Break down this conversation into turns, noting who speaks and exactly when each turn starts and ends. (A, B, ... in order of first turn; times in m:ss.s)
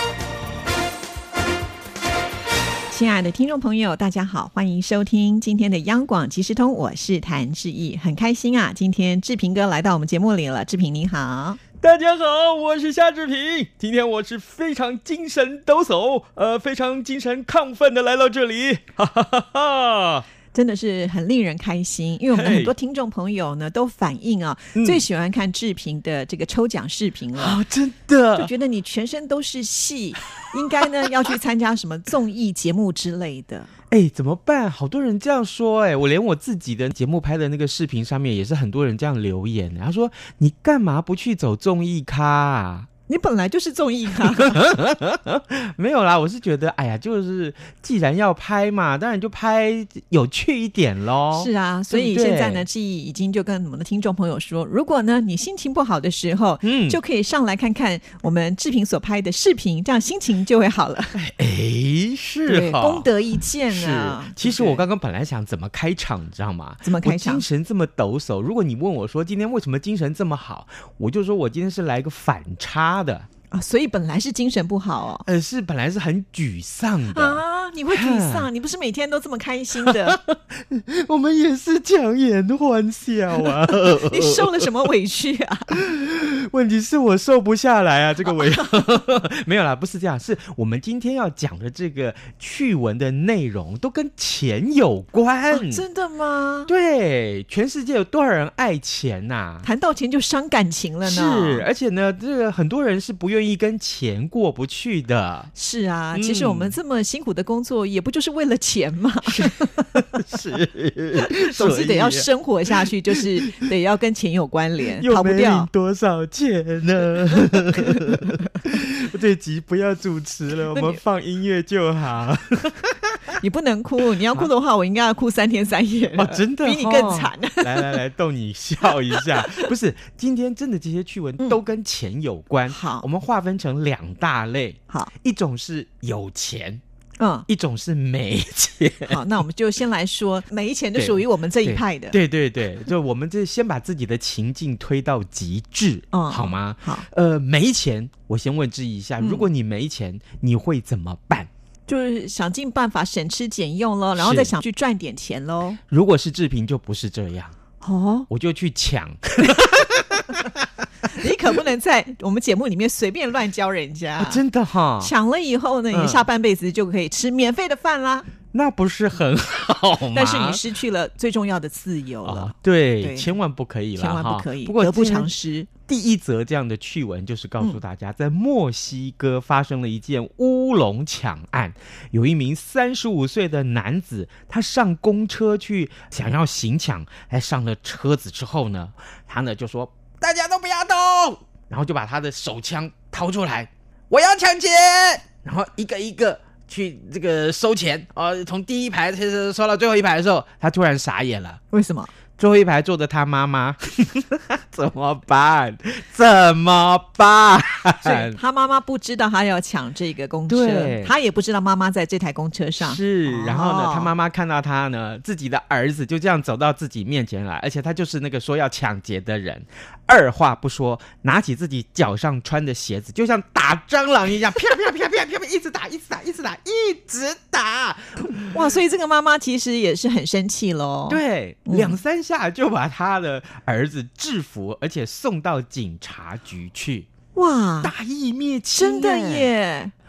0:02.9-0:11.6 A
0:11.8-0:20.2 B
0:20.5-0:27.6 A
0:22.3-0:22.7 B
0:24.8-0:25.0 B
0:27.3-0:28.5 B
0:28.4-0:33.7 A
0:33.9-0:42.9 B
0:43.1-0:44.6 A
0:44.1-0:52.6 B
0:51.3-1:01.2 A
0:56.6-0:57.0 B
1:01.1-1:03.1 B
1:02.4-1:04.8 A
1:03.7-1:13.3 B
1:06.8-1:07.4 A
1:13.5-1:15.2 A
1:15.2-1:18.5 B
1:17.1-1:20.2 A
1:19.8-1:24.7 B
1:24.0-1:25.8 A
1:25.7-1:35.8 B
1:35.5-1:36.7 A
1:36.7-1:39.7 B
1:39.6-1:41.7 A
1:41.0-1:45.5 B
1:45.5-1:49.9 A
1:46.1-1:46.8 B
1:49.2-1:52.3 B
1:51.2-1:55.7 A
1:52.8-1:53.6 B
1:55.0-2:03.1 B
2:00.7-2:01.0 A
2:03.4-2:08.0 A
2:06.1-2:16.8 B
2:09.1-2:09.7 A
2:12.7-2:13.1 A
2:17.2-2:17.5 A
2:17.5-2:19.2 B
2:19.1-2:22.2 A
2:20.9-2:31.5 B
2:26.1-2:27.0 A
2:29.2-2:29.5 A
2:31.9-2:35.8 A
2:34.2-2:34.5 B
2:35.9-2:37.6 B
2:37.8-2:38.3 A
2:38.3-2:40.6 B
2:41.0-2:44.4 A
2:44.2-2:45.1 B
2:45.0-2:48.3 A
2:45.9-2:46.3 B
2:48.5-2:50.6 B
2:50.1-2:53.3 A
2:52.2-2:55.3 B
2:54.0-2:55.7 A
2:55.9-3:21.6 B
3:21.7-3:22.1 A
3:22.4-3:28.4 B
3:28.0-3:34.1 A
3:30.5-3:31.1 B
3:32.8-3:48.7 B
3:48.5-3:52.0 A
3:51.1-3:57.1 B
3:57.3-3:57.9 A
3:57.8-3:59.5 B
3:58.7-3:59.9 A